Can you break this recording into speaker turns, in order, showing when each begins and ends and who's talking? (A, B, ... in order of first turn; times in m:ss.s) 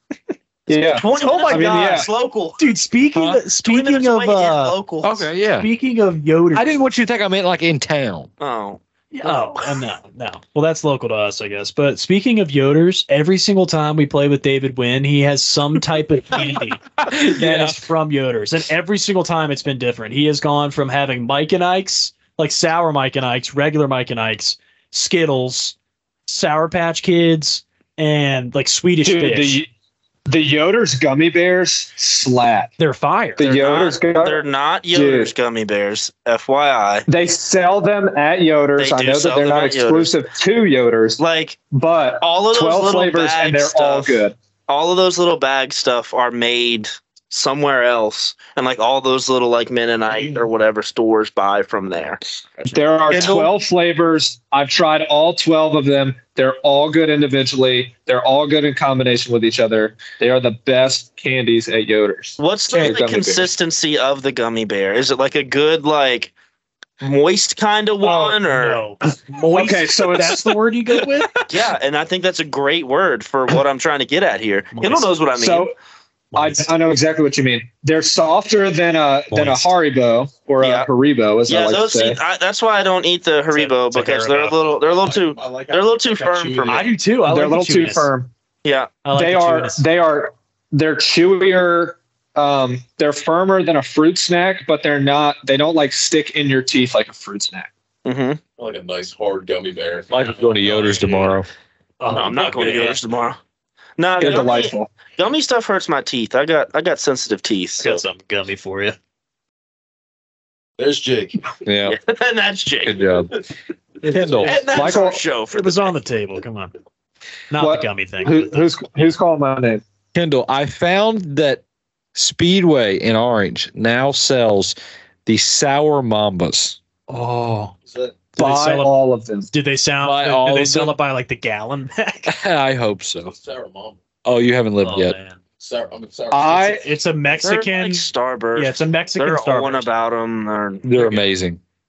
0:00.7-0:02.1 A
0:00.9-0:02.6 B
0:01.1-0:02.0 C
0:02.6-0:04.8 C
0:03.6-0:05.3 B
0:05.0-0:05.7 D
0:05.6-0:06.8 C
0:06.5-0:08.3 D
0:08.4-0:09.6 B
0:09.1-0:25.8 C
0:17.0-0:17.8 D
0:26.3-0:29.6 C
0:29.0-0:29.7 A
0:30.3-0:32.7 A
0:32.8-0:33.4 C
0:33.4-0:35.3 A
0:33.4-0:37.0 B
0:37.1-0:44.4 A
0:38.8-0:40.1 B
0:41.2-0:41.6 B
0:42.2-0:53.4 B
0:52.7-1:03.5 A
0:53.1-0:53.5 D
1:02.4-1:06.3 B
1:02.7-1:03.0 D
1:07.0-1:08.8 B
1:08.0-1:11.3 C
1:09.5-1:10.6 A
1:11.5-1:15.7 B
1:14.7-1:15.1 C
1:15.3-1:15.7 A
1:16.3-1:16.7 C
1:16.4-1:22.2 A
1:19.3-1:19.7 D
1:20.6-1:20.9 B
1:21.5-1:26.9 B
1:23.5-1:24.6 C
1:24.9-1:26.9 E
1:26.7-1:28.1 C
1:27.3-1:28.3 A
1:28.6-1:28.9 B
1:29.0-1:29.8 C
1:29.1-1:37.7 A
1:38.0-1:38.4 B
1:38.6-1:40.1 E
1:40.1-1:41.5 D
1:40.2-1:41.4 C
1:42.0-1:43.0 C
1:42.1-1:43.4 B
1:44.0-1:48.0 B
1:44.2-1:44.9 A
1:44.2-1:44.4 D
1:47.8-1:49.0 C
1:50.8-1:51.5 E
1:51.6-1:52.0 D
1:51.9-1:53.1 B
1:52.8-1:53.3 D
1:54.0-1:55.0 C
1:54.1-1:54.6 D
1:54.4-1:55.9 B
1:54.7-1:55.2 A
1:55.5-1:56.7 C
1:57.5-1:58.6 C
1:57.6-1:59.8 A
2:00.1-2:01.6 D
2:02.1-2:04.7 D
2:05.3-2:07.7 D
2:07.1-2:07.7 C
2:07.8-2:08.2 E
2:08.4-2:08.9 C
2:08.4-2:09.5 A
2:09.5-2:12.3 C
2:10.0-2:11.0 D
2:12.3-2:13.3 D
2:13.2-2:14.0 E
2:14.2-2:15.2 D
2:14.8-2:15.4 C
2:15.6-2:16.8 E
2:16.3-2:16.8 A
2:16.7-2:19.9 C
2:17.4-2:20.9 B
2:20.8-2:21.6 D
2:21.0-2:21.3 C